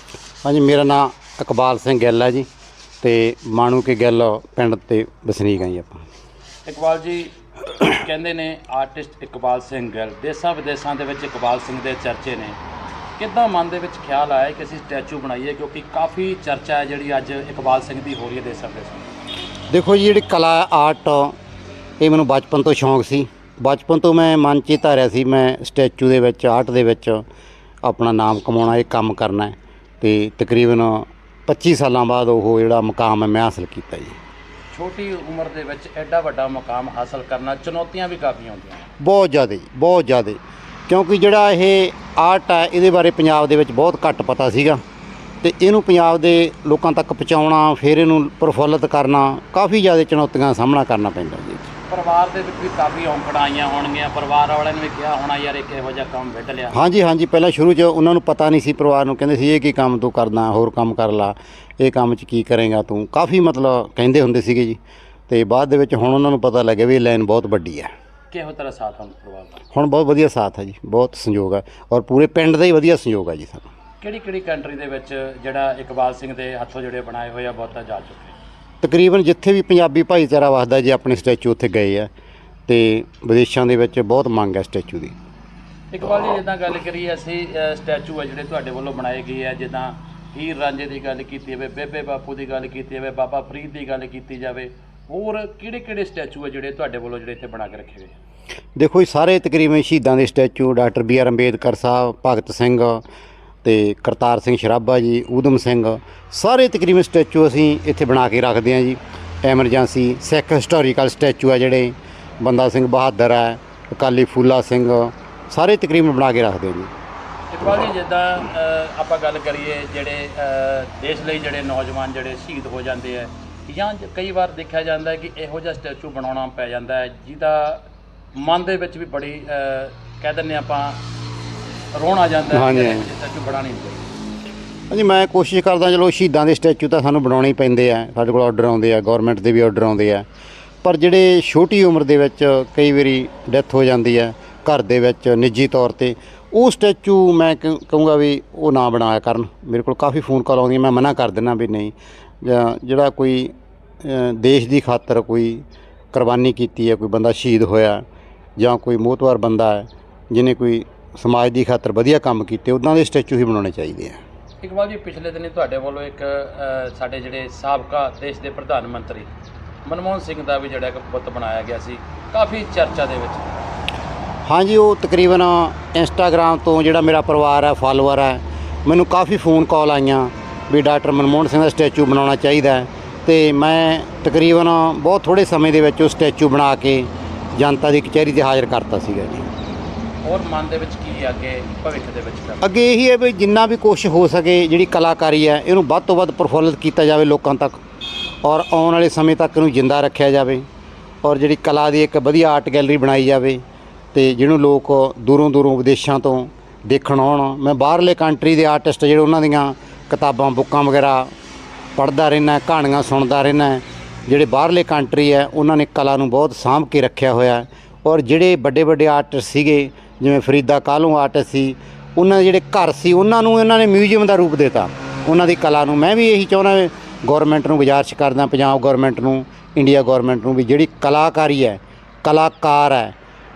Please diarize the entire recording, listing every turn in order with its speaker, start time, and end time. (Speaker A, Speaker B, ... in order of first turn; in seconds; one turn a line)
Speaker A: 0.4-2.5
Speaker A: 3.0-6.0
Speaker B: 6.7-12.6
Speaker B: 13.2-19.2
Speaker A: 19.7-21.4
Speaker A: 22.0-27.2
Speaker A: 27.8-34.1
Speaker B: 34.7-38.9
Speaker A: 39.0-44.8
Speaker A: 45.4-51.7
Speaker B: 51.9-56.8
Speaker A: 56.7-67.9
Speaker B: 68.3-69.6
Speaker A: 69.7-73.7
Speaker B: 74.0-78.3
Speaker A: 78.8-82.1
Speaker A: 82.7-85.2
Speaker B: 85.9-98.1
Speaker A: 98.8-103.0
Speaker A: 103.6-116.9
Speaker B: 117.5-127.8
Speaker B: 128.3-131.0
Speaker B: 131.9-134.1
Speaker A: 132.5-133.1
Speaker A: 134.9-140.3
Speaker A: 140.8-158.0
Speaker A: 158.6-164.2
Speaker B: 164.6-169.3
Speaker B: 169.8-173.6
Speaker A: 174.5-189.5
Speaker B: 190.2-192.7
Speaker A: 192.6-197.8
Speaker A: 198.4-200.7
Speaker A: 201.2-211.3
Speaker A: 212.0-233.2